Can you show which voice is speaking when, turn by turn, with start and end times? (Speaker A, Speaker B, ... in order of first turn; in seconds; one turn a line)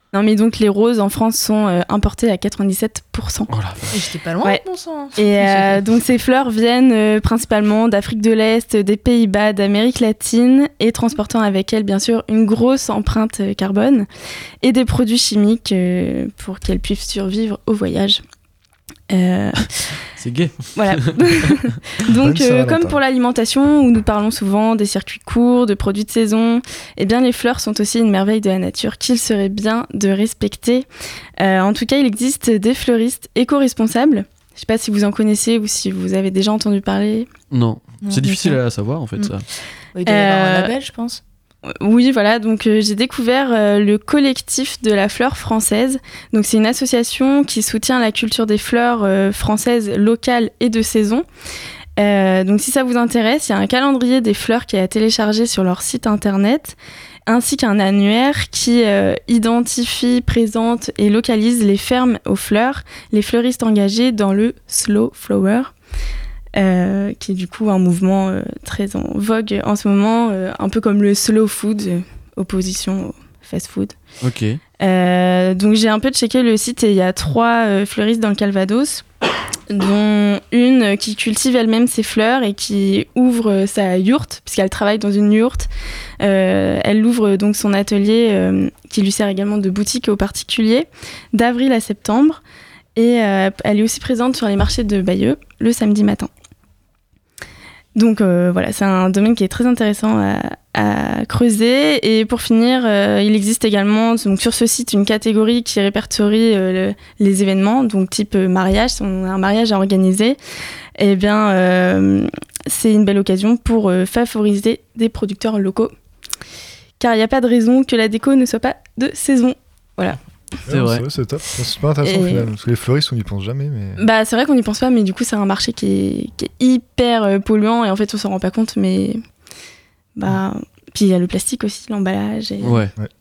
Speaker A: 0.1-3.5
Speaker B: 3.5-4.0
Speaker C: 3.9-5.8
Speaker A: 5.2-14.1
Speaker A: 14.6-18.2
Speaker A: 19.1-19.7
Speaker B: 20.2-21.4
Speaker A: 20.7-30.9
Speaker D: 22.1-23.0
Speaker A: 31.4-37.3
Speaker B: 37.5-39.4
Speaker C: 38.0-38.5
Speaker C: 39.9-41.2
Speaker A: 40.1-40.7
Speaker A: 41.7-51.2
Speaker A: 52.0-56.8
Speaker A: 57.3-65.7
Speaker A: 66.5-74.0
Speaker B: 74.2-74.6
Speaker A: 74.8-79.0
Speaker A: 79.7-85.7
Speaker A: 86.2-92.4
Speaker A: 93.0-96.3
Speaker A: 97.9-110.4
Speaker A: 111.0-115.9
Speaker A: 117.0-120.2
Speaker D: 120.7-124.0
Speaker B: 120.7-121.0
Speaker A: 122.0-122.5
Speaker A: 124.0-129.2
Speaker A: 130.2-132.8
Speaker B: 132.6-132.9